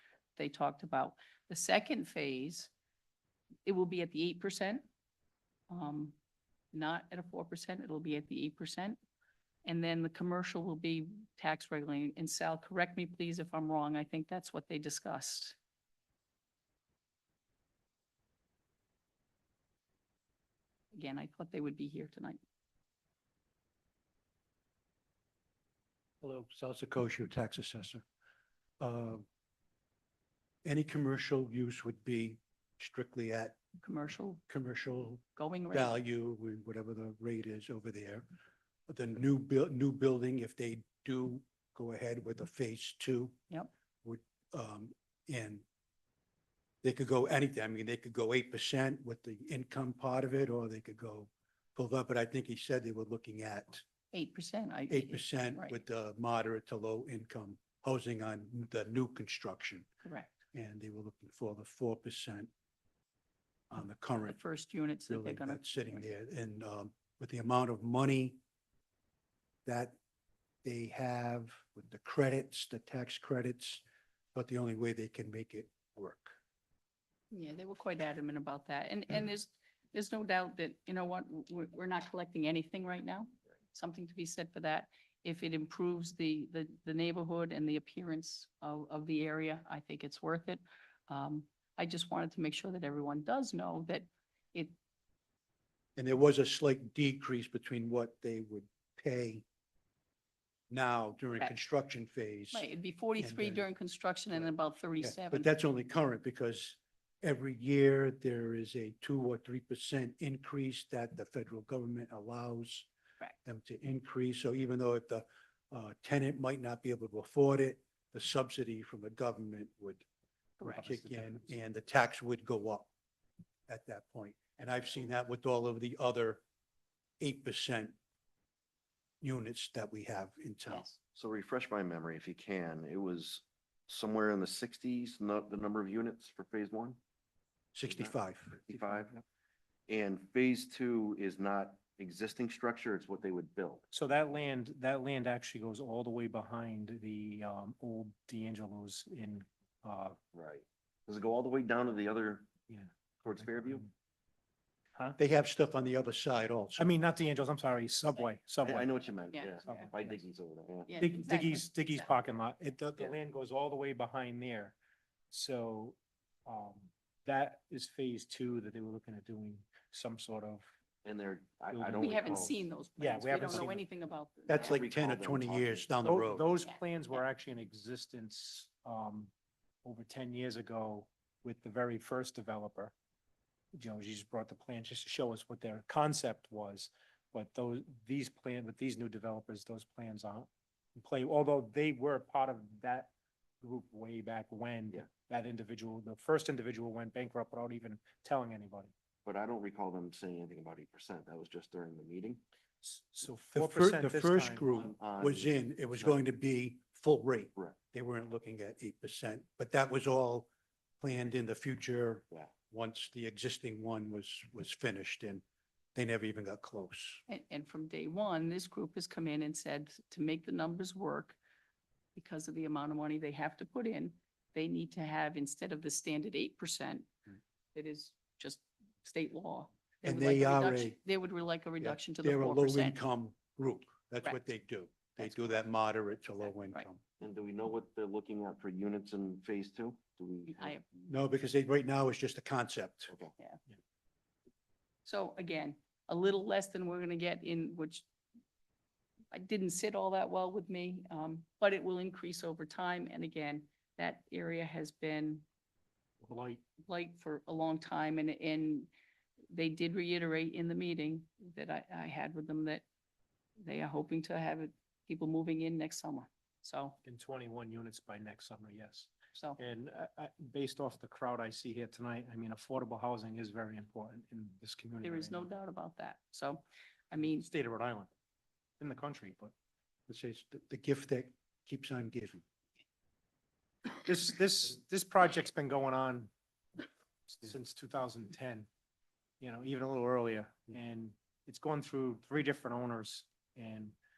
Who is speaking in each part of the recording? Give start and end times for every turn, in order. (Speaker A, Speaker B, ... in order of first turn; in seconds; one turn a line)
Speaker A: 0.4-2.7
Speaker A: 3.7-4.8
Speaker A: 5.7-6.2
Speaker A: 6.7-9.0
Speaker A: 9.7-15.6
Speaker A: 20.9-22.4
Speaker B: 26.2-28.1
Speaker B: 28.8-29.2
Speaker B: 30.6-33.6
Speaker A: 33.8-34.4
Speaker B: 34.5-38.3
Speaker A: 35.4-35.9
Speaker B: 38.9-43.4
Speaker B: 44.0-45.6
Speaker B: 46.8-53.9
Speaker A: 54.1-55.8
Speaker B: 54.9-59.9
Speaker A: 60.0-60.3
Speaker B: 60.5-62.5
Speaker B: 63.7-64.4
Speaker A: 64.3-66.0
Speaker B: 65.1-68.4
Speaker B: 69.7-70.0
Speaker B: 70.6-73.8
Speaker B: 74.3-76.4
Speaker A: 77.3-94.8
Speaker B: 96.0-99.4
Speaker B: 100.7-103.7
Speaker A: 102.5-105.5
Speaker B: 104.3-112.9
Speaker B: 113.5-120.0
Speaker B: 120.6-122.9
Speaker C: 120.7-121.4
Speaker B: 123.7-126.4
Speaker B: 127.2-128.0
Speaker B: 129.2-130.9
Speaker A: 130.7-131.0
Speaker D: 131.2-137.0
Speaker B: 137.7-138.6
Speaker D: 137.9-139.2
Speaker D: 139.9-143.8
Speaker C: 143.9-150.2
Speaker D: 150.3-152.5
Speaker C: 152.7-153.9
Speaker D: 153.2-153.9
Speaker B: 155.2-156.9
Speaker C: 156.8-158.9
Speaker D: 158.6-160.9
Speaker A: 159.3-159.6
Speaker C: 159.6-160.2
Speaker A: 160.9-162.0
Speaker C: 161.0-164.8
Speaker C: 165.3-170.7
Speaker D: 171.0-172.6
Speaker C: 171.7-173.8
Speaker A: 172.0-174.8
Speaker B: 174.5-176.5
Speaker D: 174.5-175.9
Speaker C: 176.0-179.3
Speaker A: 176.6-177.2
Speaker C: 179.8-182.9
Speaker C: 183.7-198.9
Speaker D: 199.2-202.4
Speaker C: 202.8-204.9
Speaker B: 203.5-210.5
Speaker D: 204.8-206.2
Speaker B: 211.0-215.4
Speaker B: 215.9-217.2
Speaker A: 217.3-221.4
Speaker A: 222.2-227.1
Speaker A: 227.7-233.0
Speaker B: 230.0-231.0
Speaker B: 231.8-237.0
Speaker A: 235.2-235.6
Speaker A: 236.5-236.9
Speaker D: 237.2-240.8
Speaker A: 240.5-240.8
Speaker B: 241.0-243.1
Speaker A: 245.1-248.1
Speaker A: 249.3-255.4
Speaker C: 256.2-256.6
Speaker A: 256.8-258.9
Speaker A: 259.5-262.9
Speaker A: 263.6-267.0
Speaker C: 267.0-275.5
Speaker A: 275.0-277.4
Speaker C: 277.4-278.1
Speaker C: 278.8-279.5
Speaker B: 280.1-282.4
Speaker C: 284.0-286.3
Speaker C: 287.3-288.7
Speaker C: 289.4-293.9